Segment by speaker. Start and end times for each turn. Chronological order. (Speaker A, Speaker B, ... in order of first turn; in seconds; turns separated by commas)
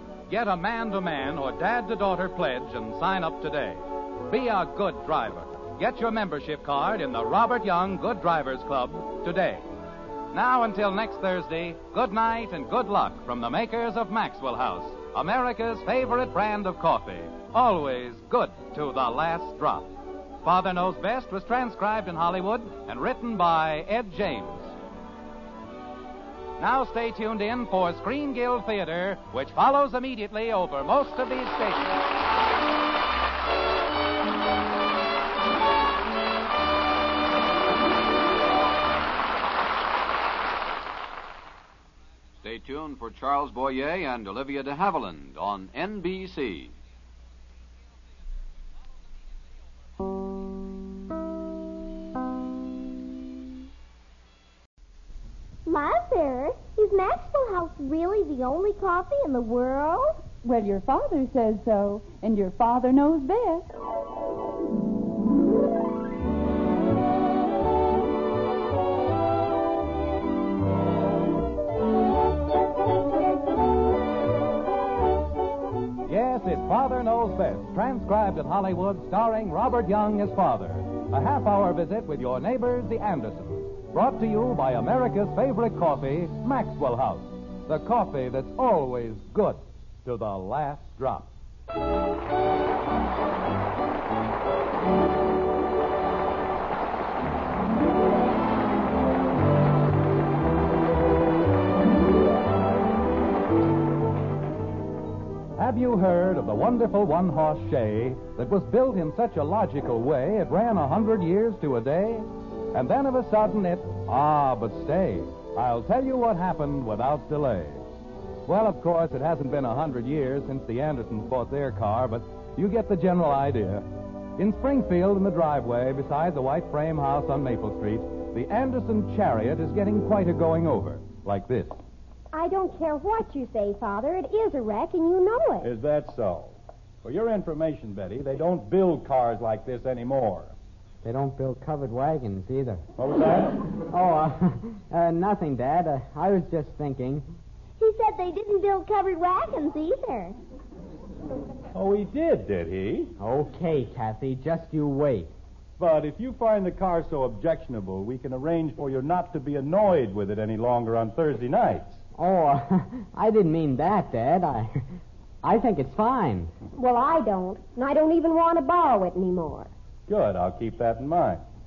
Speaker A: 0.3-9.6, Speaker A: 10.3-19.9, Speaker A: 20.4-24.8, Speaker A: 26.6-32.0, Speaker B: 42.4-46.7, Speaker C: 55.6-60.2, Speaker D: 60.4-63.7, Speaker A: 76.0-91.3, Speaker A: 105.6-117.8, Speaker A: 118.5-123.8, Speaker A: 124.4-131.8, Speaker E: 132.3-135.7, Speaker F: 135.6-140.5, Speaker G: 141.0-142.8, Speaker F: 143.0-143.6, Speaker G: 143.9-147.2, Speaker C: 147.8-150.4, Speaker F: 151.7-153.1, Speaker G: 153.2-155.3, Speaker F: 155.8-162.0, Speaker G: 162.1-164.8, Speaker G: 165.4-166.5, Speaker E: 166.8-169.7, Speaker F: 170.1-171.4